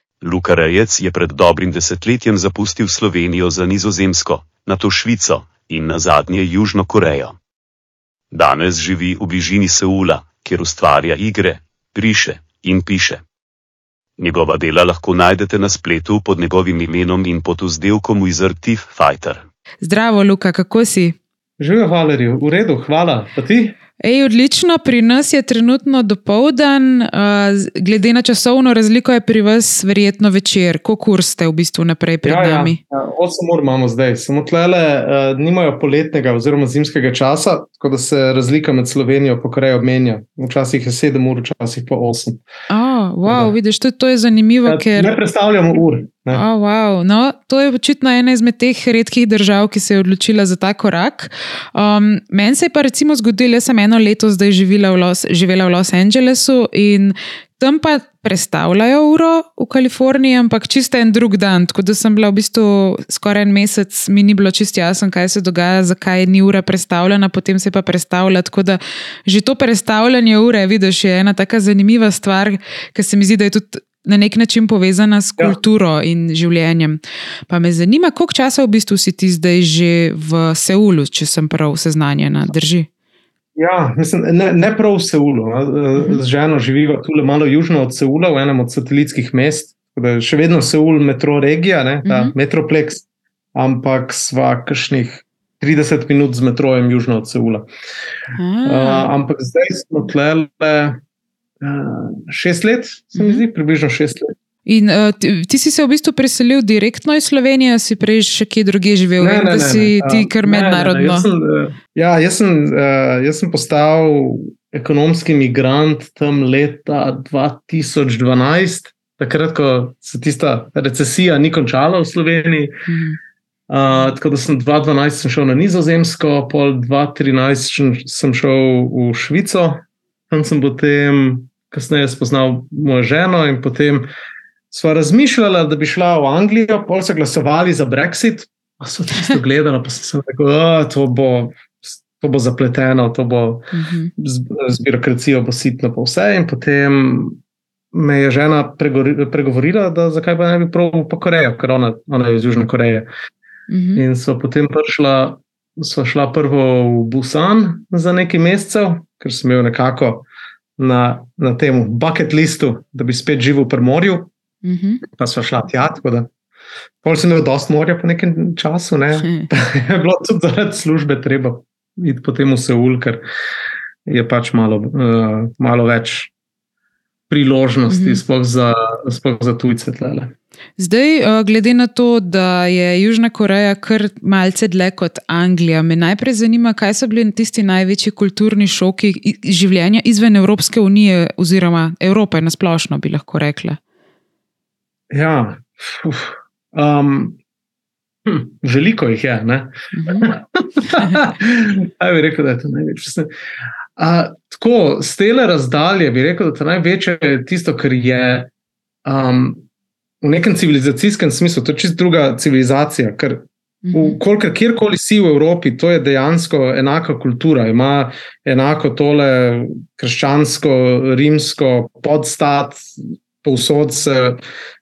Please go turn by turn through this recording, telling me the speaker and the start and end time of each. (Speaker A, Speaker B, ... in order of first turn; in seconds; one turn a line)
Speaker A: 0.2-7.4
Speaker A: 8.3-13.2
Speaker A: 14.2-19.4
Speaker B: 19.8-21.2
Speaker C: 21.6-23.8
Speaker B: 24.0-32.8
Speaker C: 32.2-42.4
Speaker B: 42.7-45.1
Speaker C: 43.2-43.5
Speaker C: 44.6-46.4
Speaker B: 46.3-82.9
Speaker C: 83.5-93.0
Speaker B: 92.0-92.3
Speaker C: 93.5-97.7
Speaker B: 98.3-99.1
Speaker C: 98.6-101.0
Speaker C: 101.6-104.3
Speaker B: 103.1-103.4
Speaker B: 104.7-111.3
Speaker C: 109.2-122.8
Speaker B: 122.9-123.2
Speaker C: 123.7-134.1
Speaker C: 134.7-147.4
Speaker B: 143.7-144.1
Speaker C: 147.9-153.1
Speaker B: 153.7-154.0
Speaker C: 153.9-160.2
Speaker C: 160.8-164.3
Speaker B: 164.6-165.0
Speaker C: 165.1-166.3
Speaker C: 167.0-173.2
Speaker C: 174.1-176.3
Speaker C: 177.3-180.3
Speaker B: 177.9-178.2
Speaker B: 180.8-193.8
Speaker C: 195.1-197.4
Speaker C: 198.2-203.3
Speaker B: 199.9-200.3
Speaker C: 204.0-208.5
Speaker C: 209.0-209.6
Speaker C: 210.2-224.4
Speaker B: 213.8-214.2